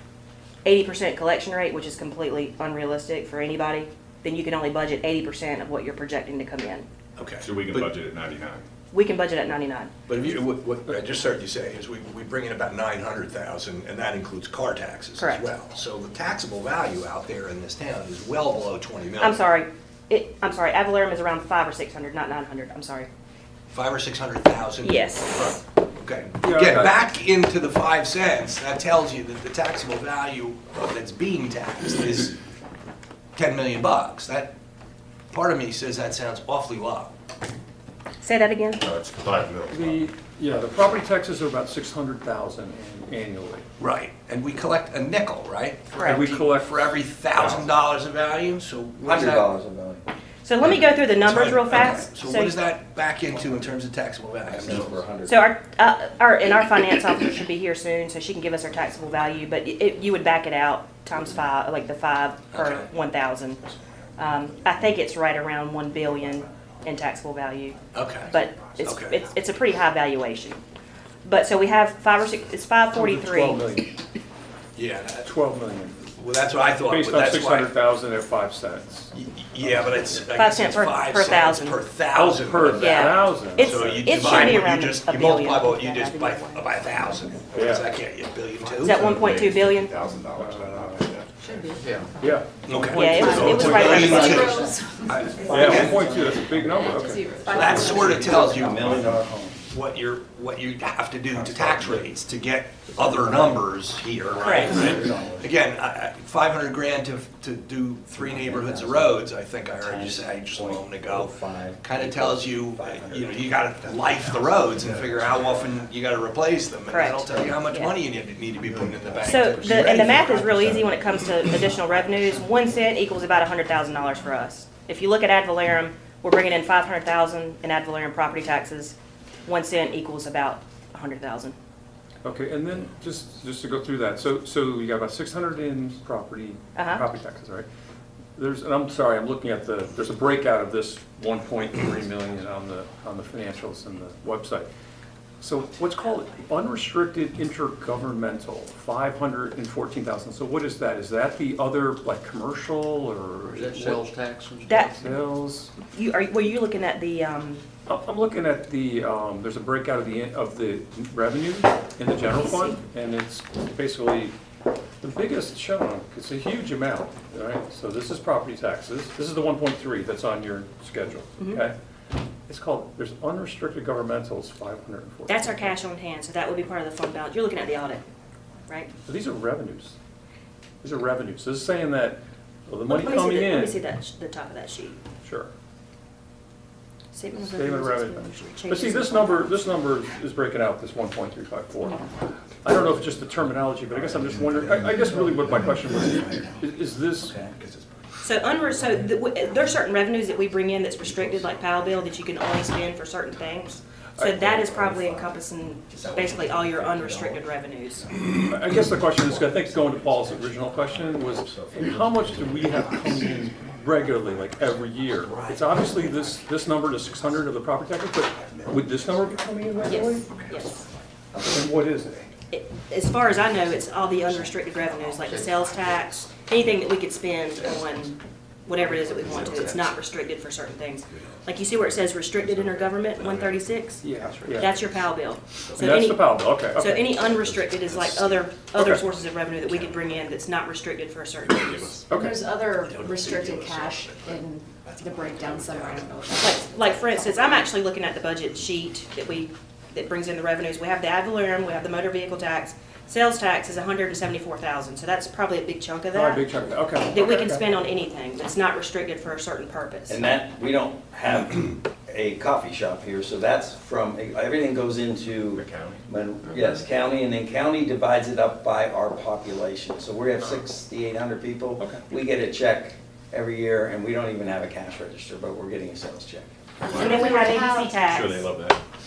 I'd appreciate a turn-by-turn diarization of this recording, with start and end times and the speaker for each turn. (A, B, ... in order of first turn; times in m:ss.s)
0:00.6-0:06.9 A
0:07.2-0:07.9 B
0:07.4-0:08.6 C
0:08.9-0:09.9 A
0:10.1-0:19.4 B
0:15.2-0:15.5 A
0:19.2-0:23.1 A
0:23.7-0:32.3 B
0:24.8-0:25.6 A
0:26.4-0:26.9 D
0:33.4-0:34.5 B
0:35.3-0:37.1 B
0:38.2-0:38.8 A
0:38.8-0:40.1 C
0:39.7-0:43.6 D
0:43.8-0:49.5 B
0:45.9-0:46.2 A
0:46.0-0:46.9 D
0:47.3-0:47.7 C
0:49.0-0:50.0 E
0:50.4-0:52.6 A
0:50.6-0:55.1 B
0:54.5-0:55.4 E
0:55.2-1:03.6 A
1:02.5-1:02.9 B
1:04.2-1:10.6 A
1:07.9-1:09.2 B
1:11.2-1:13.6 A
1:12.9-1:14.0 D
1:14.8-1:15.3 B
1:15.2-1:16.1 D
1:16.2-1:17.8 B
1:16.8-1:19.1 D
1:19.1-1:29.1 B
1:20.3-1:21.8 A
1:22.1-1:24.6 D
1:22.8-1:26.7 A
1:27.5-1:27.9 D
1:28.8-1:31.3 C
1:28.8-1:29.9 A
1:30.3-1:31.1 D
1:31.4-1:32.0 F
1:31.8-1:32.1 G
1:32.2-1:34.4 D
1:32.6-1:36.0 B
1:32.9-1:34.6 A
1:33.2-1:35.1 F
1:33.6-1:36.5 E
1:35.5-1:38.1 D
1:36.8-1:38.2 F
1:37.4-1:39.2 B
1:37.6-1:39.6 E
1:39.7-2:00.8 B
1:41.3-1:42.1 E
1:43.0-1:43.6 E
1:44.4-1:45.5 E
1:44.4-1:44.9 A
1:48.2-1:55.8 E
1:56.9-1:57.9 A
1:59.2-2:11.6 A
2:12.2-2:17.7 D
2:16.8-2:17.0 A
2:18.4-2:24.7 D
2:25.4-2:34.1 D
2:33.5-2:35.2 G
2:34.7-2:35.0 A
2:34.9-2:35.7 D
2:35.8-2:37.6 A
2:37.9-2:44.3 D
2:42.5-2:42.8 A
2:45.0-2:51.7 D
2:51.4-2:51.6 A
2:52.5-2:55.8 D
2:55.3-2:58.0 A
2:59.1-2:59.9 D
3:00.8-3:03.8 D
3:02.9-3:05.0 A
3:05.2-3:05.5 D
3:07.1-3:09.7 A
3:07.4-3:12.1 D
3:12.6-3:17.5 D
3:14.3-3:16.4 C
3:17.2-3:17.6 E
3:17.6-3:17.9 C
3:18.2-3:28.1 A
3:24.2-3:24.7 D
3:24.9-3:25.2 E
3:25.9-3:27.5 E
3:28.3-3:40.8 D
3:29.2-3:36.3 C
3:38.4-3:39.4 C
3:39.8-3:40.8 A
3:41.4-3:42.3 D
3:42.5-4:02.0 A
3:45.2-3:46.0 G
3:49.2-3:49.8 C
3:52.4-3:53.6 C
3:54.0-3:54.8 D
3:55.8-3:57.2 D
3:57.3-3:58.4 C
3:58.8-3:59.1 D
4:01.4-4:02.0 C
4:02.1-4:02.5 D
4:02.1-4:07.5 F
4:02.9-4:03.9 B
4:03.1-4:03.5 G
4:03.3-4:04.4 C
4:05.1-4:05.5 G
4:05.2-4:06.3 C
4:06.4-4:16.4 A
4:16.1-4:17.6 D
4:17.1-4:20.3 A
4:20.1-4:36.5 E
4:25.5-4:26.0 C
4:26.5-4:26.8 D
4:36.9-4:38.8 C
4:36.9-4:38.5 A
4:37.0-4:37.9 F